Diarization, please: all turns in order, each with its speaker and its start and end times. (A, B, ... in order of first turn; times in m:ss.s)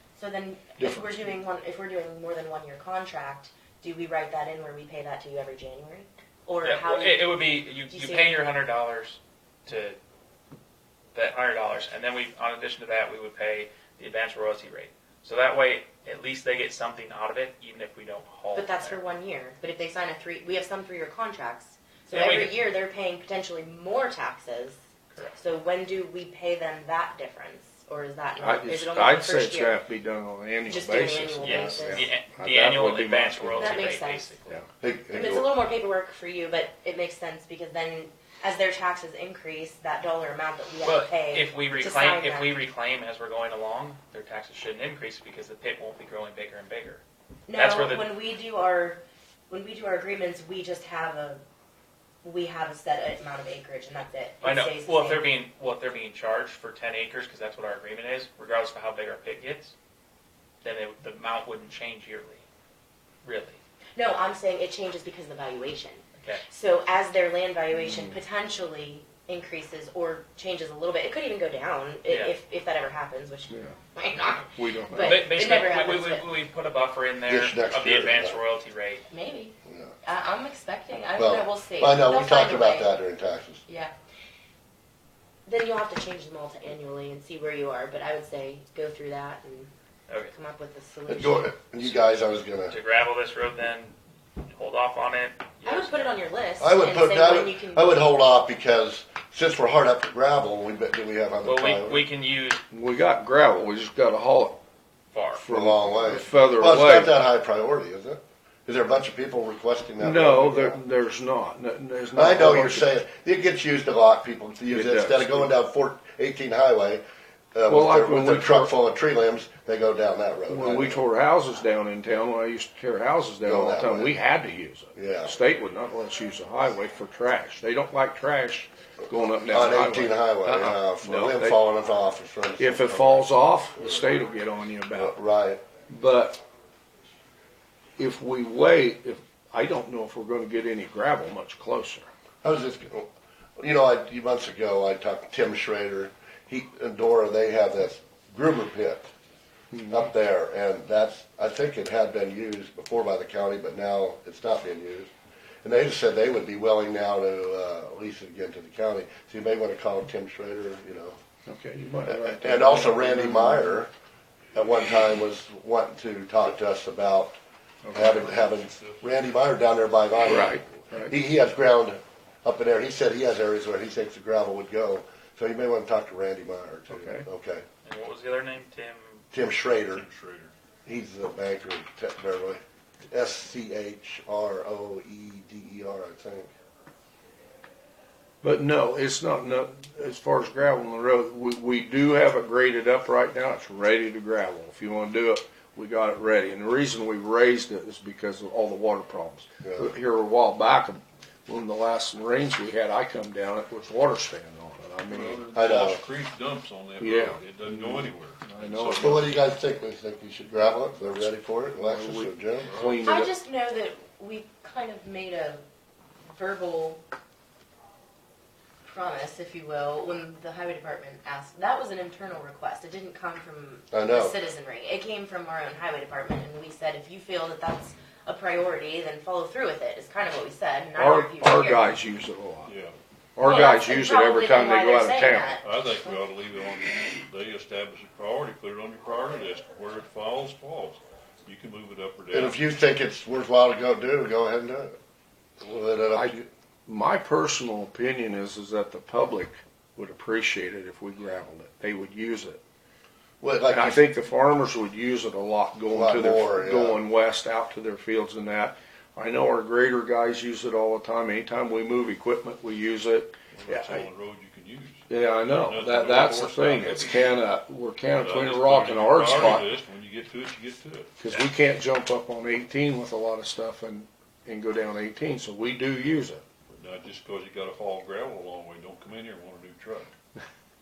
0:00.2-0:08.5 A
0:00.8-0:01.1 B
0:06.6-0:10.0 C
0:11.1-0:19.0 C
0:18.5-0:24.8 A
0:22.1-0:22.6 C
0:25.4-0:29.8 A
0:28.4-0:33.8 B
0:30.7-0:32.1 A
0:31.4-0:34.5 C
0:33.6-0:34.3 A
0:34.8-0:35.5 D
0:35.1-0:42.5 A
0:40.8-0:47.0 C
0:47.5-0:51.4 A
0:47.5-0:48.1 C
0:52.2-0:55.2 A
0:54.4-0:59.7 C
1:00.6-1:02.4 C
1:03.2-1:03.6 C
1:04.0-1:16.3 A
1:07.7-1:08.2 B
1:12.1-1:12.3 C
1:13.5-1:13.8 B
1:14.5-1:15.3 B
1:15.0-1:19.0 C
1:17.3-1:18.4 D
1:19.1-1:23.0 A
1:19.6-1:20.0 D
1:21.2-1:23.6 D
1:23.7-1:23.9 A
1:25.4-1:29.7 A
1:30.3-1:31.5 A
1:31.1-1:32.8 D
1:32.7-1:36.1 C
1:35.6-1:38.1 A
1:36.6-1:42.0 D
1:41.4-1:42.6 C
1:42.7-1:44.6 B
1:45.1-1:45.4 C
1:45.4-1:47.2 B
1:45.5-1:50.8 D
1:50.0-1:52.9 B
1:52.2-2:01.0 D
1:54.7-1:55.5 B
1:57.7-1:58.7 B
2:00.5-2:11.6 B
2:03.4-2:04.2 D
2:05.0-2:05.4 D
2:09.5-2:13.2 D
2:12.6-2:15.1 B
2:14.9-2:15.6 D
2:15.9-2:16.4 B
2:18.0-2:22.1 B
2:22.4-2:29.1 D
2:29.7-2:30.0 B
2:29.9-2:35.1 D
2:35.6-2:41.2 D
2:41.4-2:43.8 B
2:42.0-2:43.9 D
2:44.5-2:47.4 D
2:47.8-2:48.3 B
2:47.9-2:57.6 D
2:48.3-2:49.0 E
2:50.2-2:51.1 B
2:56.9-2:57.2 B
2:57.8-2:59.2 C
2:59.3-3:00.0 D
2:59.9-3:00.5 E
3:00.8-3:06.5 D
3:08.4-3:25.4 B
3:19.6-3:19.9 D
3:25.1-3:29.2 E
3:25.5-3:26.0 D
3:27.0-3:29.3 B
3:29.0-3:32.8 D
3:31.8-3:33.3 B
3:32.7-3:33.0 E
3:33.0-3:35.6 A
3:36.3-3:37.0 A
3:38.8-3:51.9 A
3:43.9-3:44.3 D
3:51.0-3:52.7 B
3:52.7-3:52.9 E
3:53.4-3:55.6 B
3:53.4-3:55.7 A
3:55.6-4:02.6 E
4:02.3-4:05.0 D
4:05.6-4:06.5 D
4:06.1-4:12.6 B
4:13.4-4:14.0 D
4:13.7-4:24.0 B
4:15.9-4:17.0 D
4:23.5-4:27.4 E
4:25.1-4:29.7 B
4:28.1-4:31.1 E
4:31.2-4:36.4 B
4:36.7-4:40.1 E